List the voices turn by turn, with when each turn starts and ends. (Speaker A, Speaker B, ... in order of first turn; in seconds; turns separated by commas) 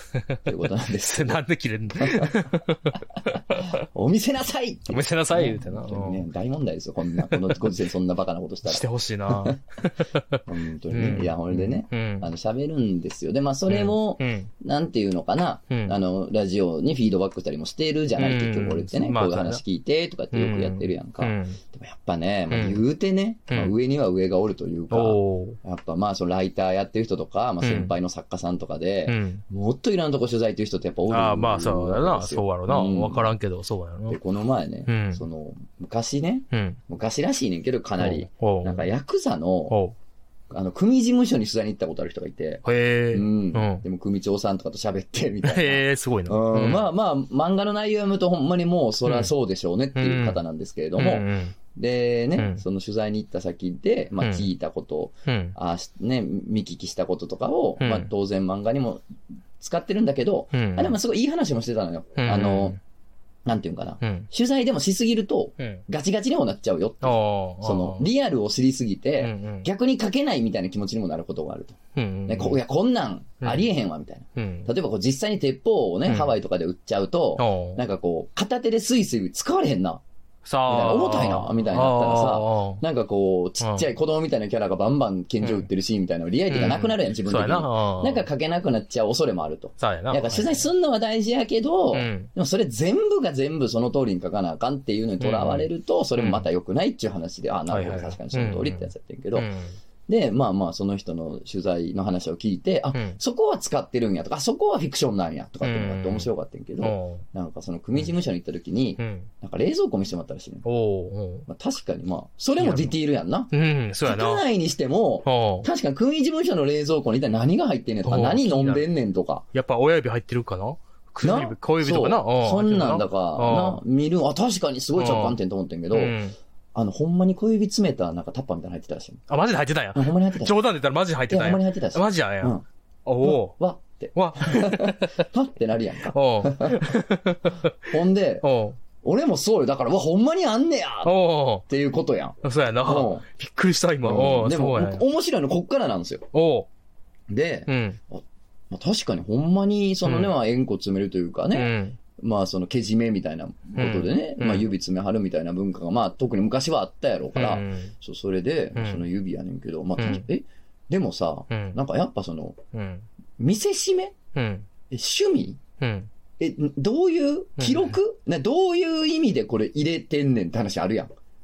Speaker A: 0.5-1.4, Speaker B: 1.0-3.8, Speaker A: 2.0-2.4, Speaker A: 3.2-9.6, Speaker B: 4.9-6.2, Speaker B: 7.2-7.7, Speaker B: 8.7-12.3, Speaker A: 10.5-33.3, Speaker B: 13.7-14.5, Speaker B: 15.7-16.0, Speaker B: 18.2-19.6, Speaker B: 20.3-21.6, Speaker B: 22.5-22.8, Speaker B: 24.9-25.6, Speaker B: 27.6-27.9, Speaker B: 29.1-29.4, Speaker B: 31.1-34.2, Speaker A: 34.1-39.8, Speaker B: 34.9-35.2, Speaker B: 36.5-36.8, Speaker B: 38.0-38.9, Speaker B: 39.7-40.0, Speaker A: 40.5-59.0, Speaker B: 42.6-43.8, Speaker B: 45.4-46.8, Speaker B: 49.1-49.3, Speaker B: 50.0-50.4, Speaker B: 51.0-51.6, Speaker B: 52.4-52.6, Speaker B: 55.2-55.6, Speaker B: 57.8-58.1, Speaker A: 59.6-62.8, Speaker B: 60.5-61.0, Speaker B: 62.2-62.8, Speaker A: 63.5-80.0, Speaker B: 64.0-64.3, Speaker B: 67.0-68.1, Speaker B: 69.2-69.7, Speaker B: 72.0-72.6, Speaker B: 74.4-74.7, Speaker B: 76.1-76.4, Speaker B: 77.4-77.8, Speaker B: 80.5-82.8, Speaker A: 80.7-99.5, Speaker B: 85.4-85.7, Speaker B: 86.5-88.2, Speaker B: 89.8-90.6, Speaker B: 91.9-92.3, Speaker B: 95.2-96.5, Speaker B: 97.7-99.8, Speaker A: 100.1-110.7, Speaker B: 102.9-103.2, Speaker B: 105.6-106.3, Speaker B: 106.8-107.2, Speaker B: 109.0-109.3, Speaker B: 110.7-111.5, Speaker A: 111.5-113.5, Speaker B: 112.6-113.0, Speaker B: 113.5-114.4, Speaker A: 114.0-119.4, Speaker B: 115.2-115.7, Speaker B: 118.0-118.8, Speaker B: 119.5-123.8, Speaker A: 121.2-126.2, Speaker B: 125.0-125.4, Speaker B: 125.9-126.3, Speaker A: 126.8-129.2, Speaker B: 129.3-133.6, Speaker A: 129.9-130.6, Speaker A: 131.3-132.7, Speaker A: 133.2-136.8, Speaker B: 134.2-135.2, Speaker B: 136.1-137.7, Speaker A: 137.9-138.4, Speaker B: 138.4-138.8, Speaker A: 139.0-143.2, Speaker B: 141.0-141.7, Speaker B: 142.4-145.0, Speaker A: 144.1-146.2, Speaker B: 146.3-146.7, Speaker A: 147.3-162.6, Speaker B: 147.7-148.0, Speaker B: 150.1-150.3, Speaker B: 151.5-152.0, Speaker B: 153.8-154.7, Speaker B: 157.3-157.9, Speaker B: 158.8-159.0, Speaker B: 160.0-160.2, Speaker B: 161.5-161.8, Speaker B: 162.7-163.1, Speaker A: 163.4-164.2, Speaker B: 164.3-164.7, Speaker A: 164.9-165.6, Speaker B: 165.8-166.1, Speaker A: 166.4-171.1, Speaker B: 167.6-167.9